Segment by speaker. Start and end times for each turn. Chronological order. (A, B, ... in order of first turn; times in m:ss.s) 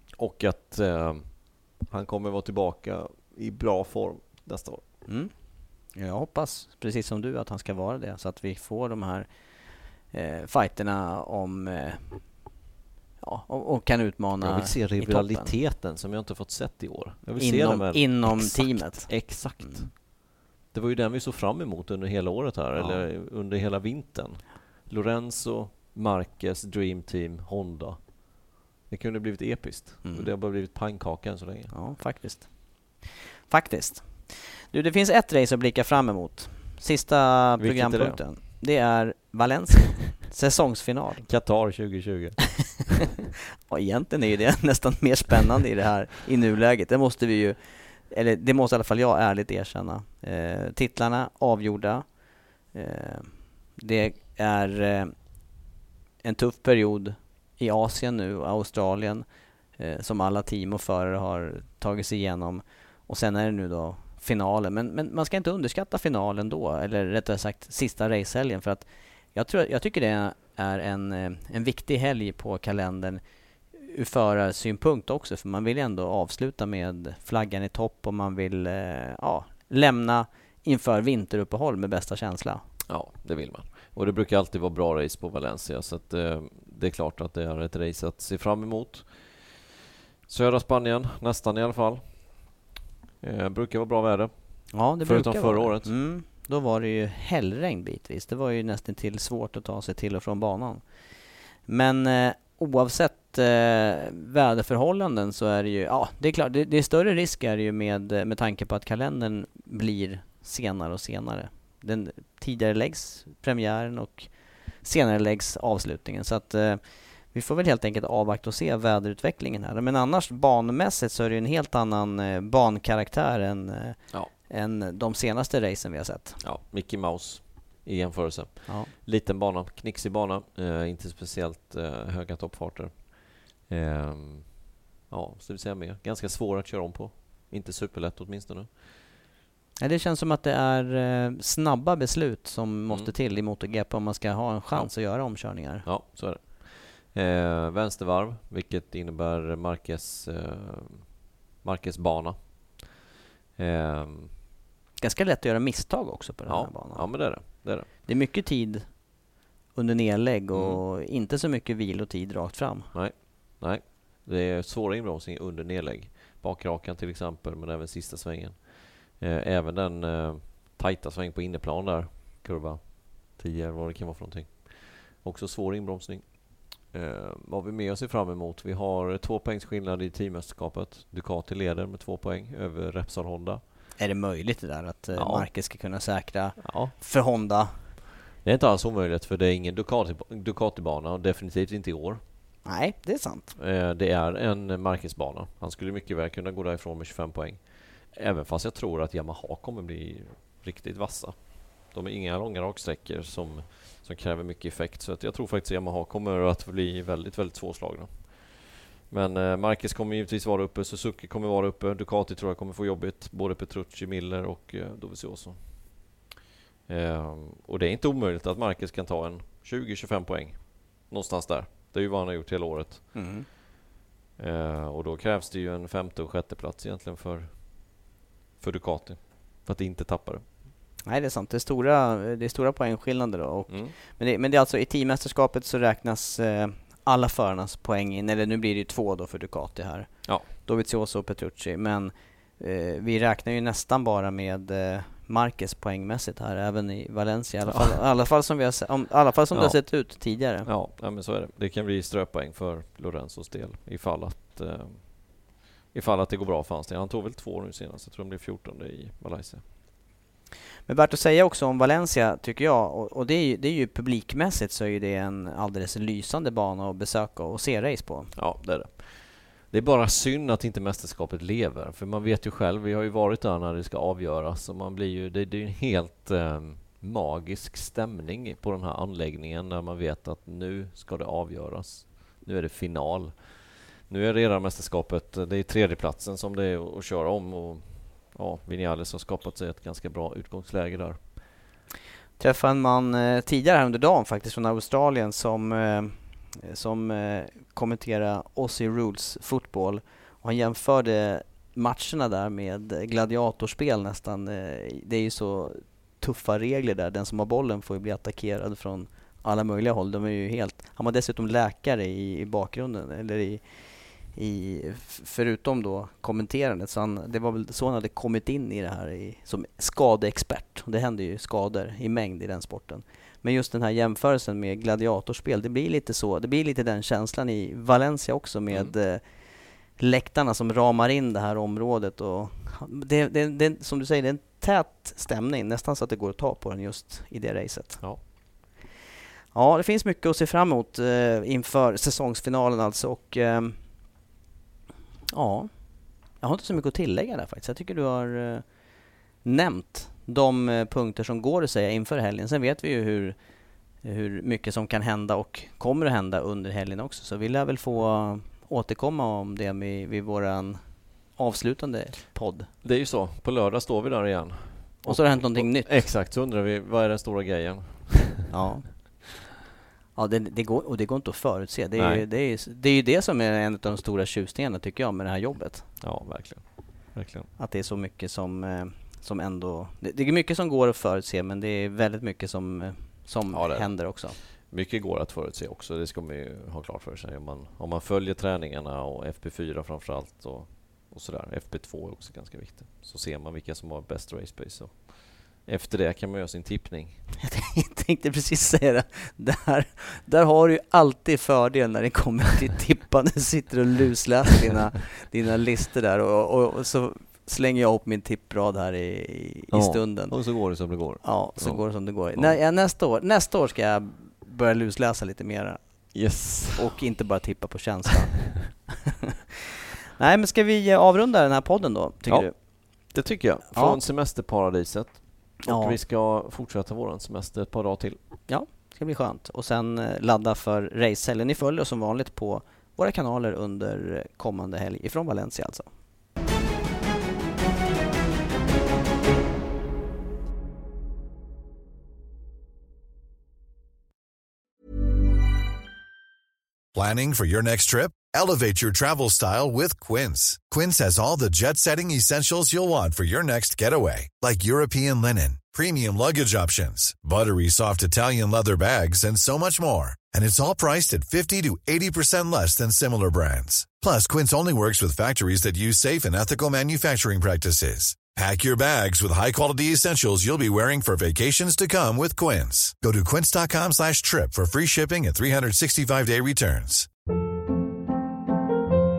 0:00.2-0:04.9 A
0:05.1-0:12.5 B
0:13.2-0:15.5 B
0:14.4-0:20.1 A
0:17.4-0:19.9 B
0:20.7-0:31.8 A
0:22.8-0:23.1 B
0:30.0-0:30.3 B
0:31.7-0:41.3 B
0:37.6-0:38.2 A
0:41.2-0:43.0 A
0:43.7-0:55.3 B
0:56.2-1:22.6 B
1:22.9-1:29.6 A
1:30.3-1:32.5 A
1:33.2-1:36.0 A
1:34.7-2:06.4 B
2:06.4-2:18.8 A
2:19.8-2:25.9 B
2:24.7-2:33.0 A
2:33.6-2:34.4 A
2:35.0-2:39.2 B
2:36.5-2:37.9 A
2:39.7-2:42.9 B
2:40.5-2:40.8 A
2:42.9-3:03.6 A
3:04.0-3:07.8 B
3:05.2-3:05.5 A
3:06.6-3:07.0 A
3:08.4-3:12.2 A
3:12.6-3:13.6 B
3:13.6-3:36.2 A
3:36.9-3:43.2 A
3:43.1-3:43.5 B
3:44.4-3:48.0 A
3:48.6-3:50.5 A
3:51.1-4:10.7 B
3:53.7-3:54.0 A
4:07.7-4:08.0 A
4:09.5-4:19.7 A
4:20.9-4:28.3 B
4:28.4-4:51.4 A
4:52.4-5:38.2 B
5:39.5-5:43.8 B
5:45.3-5:48.7 B
5:49.4-5:53.4 B
5:54.0-6:02.7 B
6:02.8-6:08.5 A
6:05.0-6:05.9 B
6:08.5-6:09.4 B
6:10.2-6:15.9 B
6:12.0-6:12.2 A
6:16.0-6:17.5 A
6:17.6-6:24.4 B
6:23.5-6:37.3 A
6:37.4-6:59.0 B
6:49.7-6:52.6 A
6:56.1-6:56.9 A
7:00.2-7:02.5 B
7:02.3-7:08.2 A
7:03.7-7:04.0 B
7:05.7-7:06.0 B
7:08.5-7:15.9 B
7:26.9-7:57.1 C